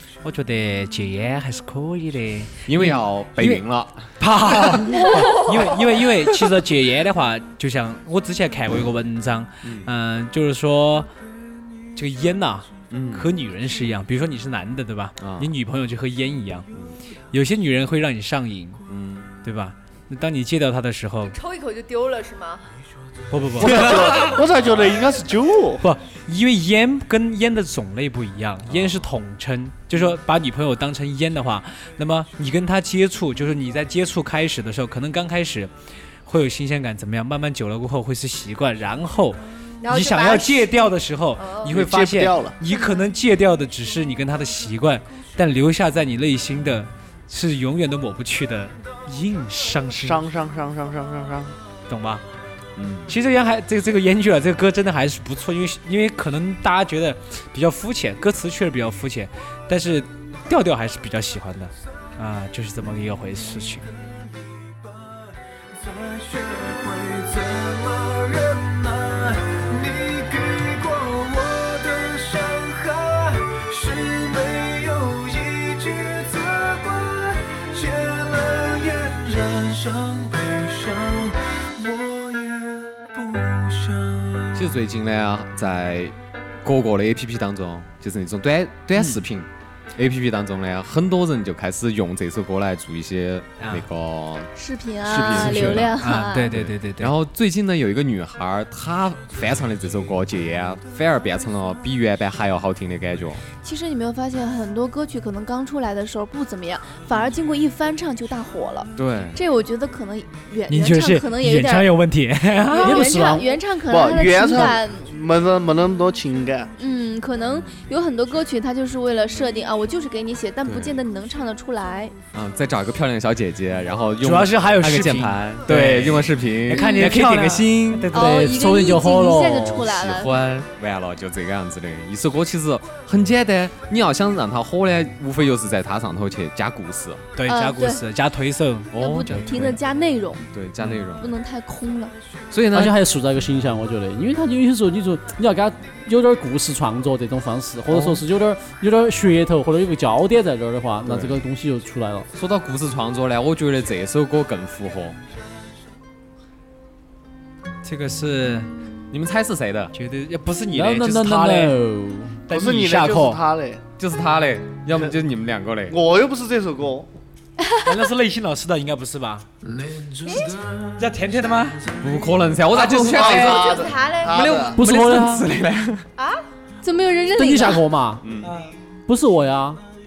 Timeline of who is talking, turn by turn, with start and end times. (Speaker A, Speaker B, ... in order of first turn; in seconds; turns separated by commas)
Speaker A: 0.2-3.6, Speaker B: 2.7-4.1, Speaker A: 4.2-11.1, Speaker A: 11.9-16.7, Speaker B: 12.9-13.3, Speaker B: 15.2-15.5, Speaker A: 17.3-18.8, Speaker B: 18.9-19.3, Speaker A: 19.4-21.4, Speaker C: 21.3-22.7, Speaker A: 23.3-24.4, Speaker D: 23.6-25.9, Speaker A: 25.8-35.7, Speaker B: 28.7-29.1, Speaker A: 36.3-50.2, Speaker C: 39.8-40.8, Speaker C: 41.4-41.7, Speaker D: 41.7-42.6, Speaker C: 42.7-43.0, Speaker D: 50.0-51.6, Speaker A: 51.9-52.2, Speaker B: 52.8-53.1, Speaker A: 53.1-63.9, Speaker E: 64.7-65.2, Speaker E: 65.7-84.7, Speaker B: 84.5-94.5, Speaker A: 93.6-93.9, Speaker F: 94.6-96.6, Speaker B: 95.0-96.0, Speaker A: 95.2-97.1, Speaker B: 96.5-103.4, Speaker F: 103.6-111.9, Speaker B: 109.0-109.4, Speaker A: 110.7-113.0, Speaker F: 112.7-115.1, Speaker G: 112.8-113.5, Speaker D: 113.9-116.7, Speaker F: 116.8-122.2, Speaker B: 120.7-121.0, Speaker B: 122.3-128.2, Speaker A: 124.2-128.5, Speaker F: 126.7-127.1, Speaker F: 128.1-130.3, Speaker G: 128.1-129.8, Speaker B: 129.8-137.3, Speaker A: 137.4-139.6, Speaker F: 137.4-138.0, Speaker B: 138.9-139.8, Speaker F: 139.0-140.5, Speaker B: 140.5-141.3, Speaker F: 141.2-142.2, Speaker B: 142.5-143.0, Speaker G: 142.7-152.3, Speaker B: 147.9-148.2, Speaker B: 151.1-151.4, Speaker B: 152.3-155.2, Speaker A: 157.8-158.7, Speaker B: 159.1-159.9, Speaker A: 159.9-161.8, Speaker G: 160.7-162.4, Speaker A: 162.5-163.4, Speaker D: 162.5-163.8, Speaker B: 164.0-166.0, Speaker D: 165.9-167.1, Speaker F: 167.6-167.9, Speaker A: 167.9-169.5, Speaker E: 169.6-172.6, Speaker C: 170.3-170.5, Speaker A: 171.0-171.8, Speaker B: 172.0-176.1, Speaker D: 172.7-174.8, Speaker A: 172.8-173.2, Speaker C: 173.1-174.6, Speaker G: 174.8-175.5, Speaker C: 176.2-176.4, Speaker F: 176.8-177.8, Speaker G: 177.4-178.2, Speaker B: 178.2-178.5, Speaker A: 178.4-178.7, Speaker G: 179.1-179.8